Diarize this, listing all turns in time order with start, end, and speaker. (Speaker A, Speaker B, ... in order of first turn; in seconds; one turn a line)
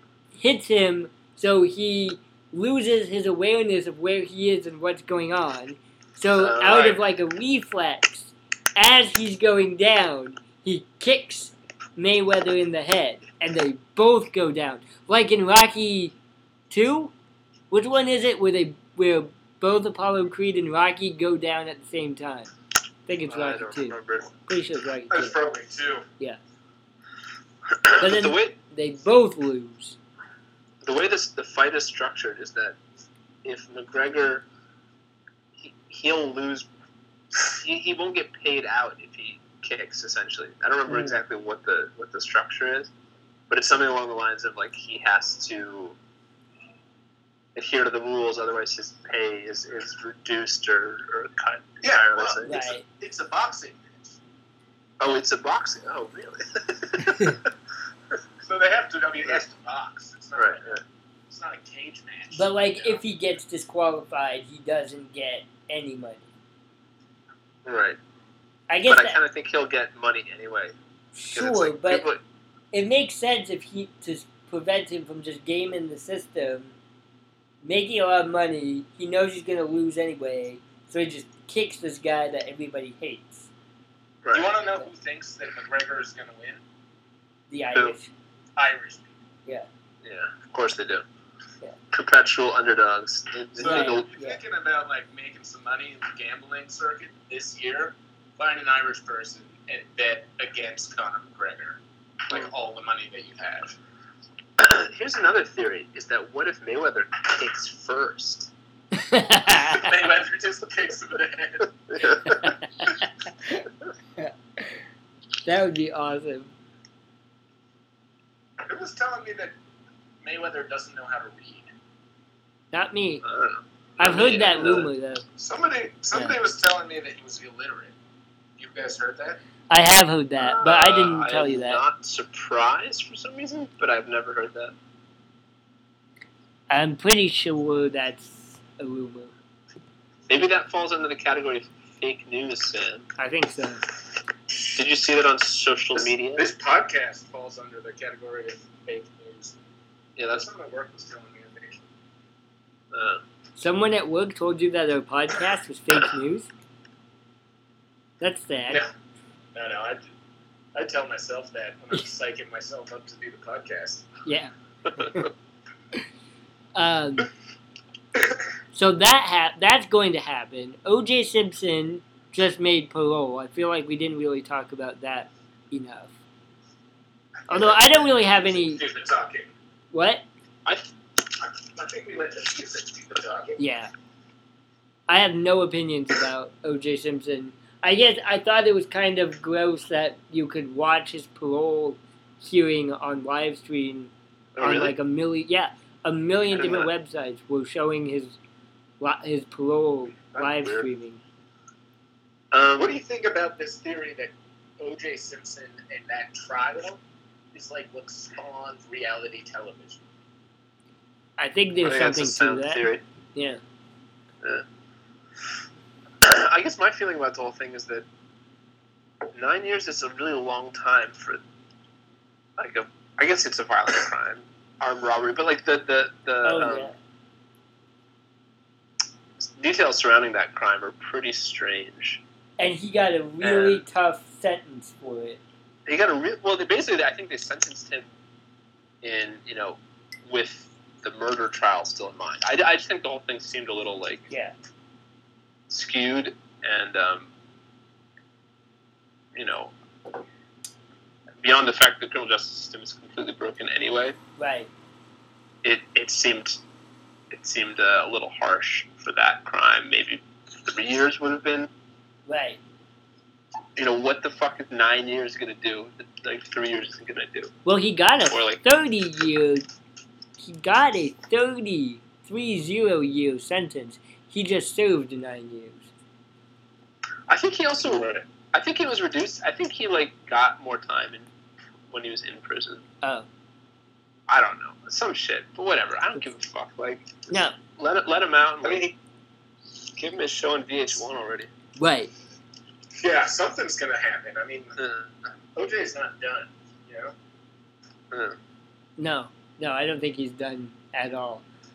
Speaker A: 0.3-16.1
Speaker B: 6.4-7.0
Speaker A: 16.7-17.1
Speaker A: 17.7-22.5
Speaker A: 23.1-25.4
Speaker B: 23.3-24.3
Speaker C: 25.1-26.0
Speaker B: 27.8-28.6
Speaker A: 28.0-29.9
Speaker B: 30.8-32.8
Speaker B: 33.4-34.5
Speaker B: 35.5-36.7
Speaker B: 37.4-42.9
Speaker A: 40.9-41.2
Speaker B: 43.5-46.0
Speaker B: 47.5-52.6
Speaker C: 51.8-54.2
Speaker A: 52.4-52.8
Speaker B: 55.0-57.5
Speaker C: 58.4-60.8
Speaker B: 60.4-60.8
Speaker C: 61.3-63.0
Speaker A: 62.3-66.3
Speaker B: 67.6-68.0
Speaker A: 68.7-69.2
Speaker B: 68.8-70.7
Speaker A: 71.1-72.1
Speaker B: 71.3-72.2
Speaker A: 72.7-76.7
Speaker A: 77.6-83.5
Speaker B: 84.2-84.5
Speaker C: 84.3-86.6
Speaker A: 87.5-88.1
Speaker C: 88.5-89.1
Speaker B: 90.0-91.0
Speaker B: 91.9-94.1
Speaker C: 93.6-103.7
Speaker A: 93.6-94.4
Speaker B: 104.6-108.5
Speaker A: 108.9-109.9
Speaker C: 109.7-111.8
Speaker B: 111.9-112.5
Speaker A: 112.3-114.8
Speaker A: 115.4-116.5
Speaker C: 118.6-119.5
Speaker C: 120.2-121.7
Speaker A: 122.7-123.2
Speaker B: 123.2-124.9
Speaker A: 124.0-125.2
Speaker C: 125.4-127.9
Speaker C: 128.6-129.4
Speaker A: 129.7-131.8
Speaker B: 130.4-134.7
Speaker A: 136.7-139.3
Speaker B: 140.3-143.1
Speaker A: 143.2-143.8
Speaker B: 144.7-146.5
Speaker C: 146.0-149.5
Speaker B: 150.2-150.5
Speaker C: 150.3-151.8
Speaker B: 152.9-153.2
Speaker A: 153.6-156.5
Speaker A: 158.2-158.8
Speaker C: 159.5-160.1
Speaker C: 160.7-164.1
Speaker A: 164.2-164.5
Speaker A: 166.7-167.3
Speaker A: 168.7-176.1
Speaker C: 177.5-179.5
Speaker A: 177.5-178.8
Speaker A: 179.9-180.2
Speaker C: 181.4-183.6
Speaker A: 183.6-183.9
Speaker A: 185.1-198.4
Speaker B: 194.5-194.9
Speaker B: 196.5-196.9
Speaker A: 199.0-201.2
Speaker B: 200.3-200.9
Speaker B: 202.5-203.0
Speaker C: 202.8-207.0
Speaker C: 207.5-210.0
Speaker A: 211.4-213.6
Speaker B: 211.8-213.0
Speaker B: 216.2-218.1
Speaker B: 219.3-221.4
Speaker B: 222.6-226.9
Speaker A: 226.4-226.9
Speaker B: 229.4-232.2
Speaker A: 232.6-235.4
Speaker B: 233.4-233.8
Speaker B: 235.8-238.1
Speaker B: 239.0-244.3
Speaker A: 244.3-244.5
Speaker B: 245.7-247.3
Speaker B: 249.3-249.7
Speaker B: 251.4-254.2
Speaker A: 254.4-254.7
Speaker B: 255.6-256.6
Speaker B: 257.3-261.7
Speaker A: 262.3-262.6
Speaker B: 263.8-267.5
Speaker A: 267.6-269.6
Speaker B: 268.3-268.6
Speaker A: 270.4-275.9
Speaker B: 277.3-281.3
Speaker B: 281.9-282.8
Speaker A: 283.0-283.3
Speaker B: 284.3-288.9
Speaker A: 287.3-287.6
Speaker C: 288.6-288.9
Speaker B: 289.9-291.5
Speaker A: 291.8-292.1
Speaker C: 293.0-294.8
Speaker B: 294.8-295.2
Speaker C: 295.6-297.1
Speaker B: 298.1-298.4
Speaker A: 299.0-301.4